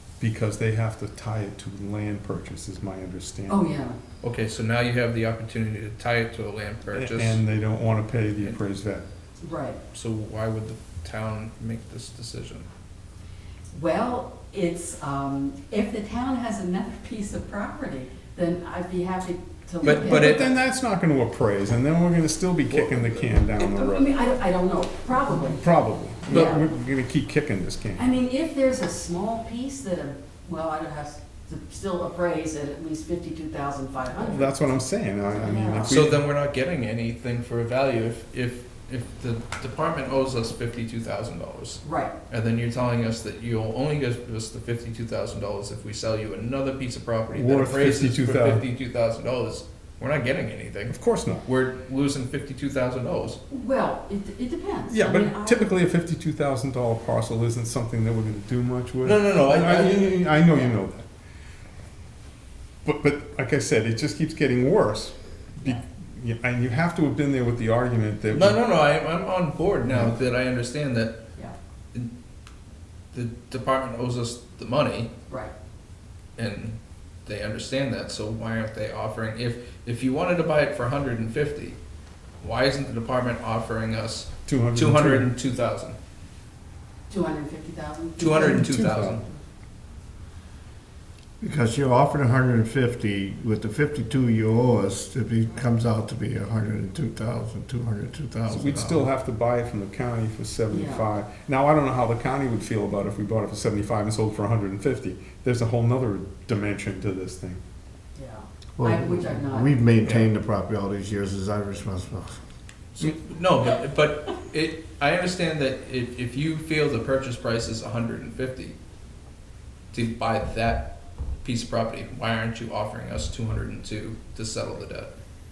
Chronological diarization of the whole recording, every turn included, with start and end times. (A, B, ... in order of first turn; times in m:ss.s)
0:00.2-0:03.6 A
0:03.5-0:04.0 B
0:04.2-0:07.4 C
0:06.9-0:09.1 A
0:09.4-0:09.8 B
0:09.9-0:12.7 C
0:13.7-0:20.5 B
0:19.8-0:20.5 C
0:19.8-0:24.2 A
0:22.7-0:23.8 C
0:23.6-0:26.7 B
0:25.6-0:28.1 A
0:28.0-0:34.7 B
0:34.2-0:36.2 A
0:35.4-0:36.1 B
0:35.9-0:50.9 C
0:41.8-0:42.1 B
0:47.3-0:48.6 A
0:50.9-0:51.5 A
0:51.4-0:53.4 C
0:53.5-0:55.7 B
0:54.9-1:01.0 A
0:59.0-1:01.0 C
1:02.8-1:08.6 A
1:08.3-1:11.2 C
1:09.9-1:10.1 A
1:13.1-1:15.1 C
1:16.4-1:21.8 C
1:22.4-1:26.0 C
1:24.5-1:25.3 A
1:27.1-1:29.2 B
1:28.2-1:29.2 C
1:28.8-1:29.2 A
1:31.4-1:39.1 D
1:38.5-1:47.6 A
1:40.7-1:41.0 B
1:48.2-1:49.7 B
1:48.8-1:52.4 D
1:53.0-1:58.8 C
1:59.9-2:00.9 C
2:01.4-2:05.1 C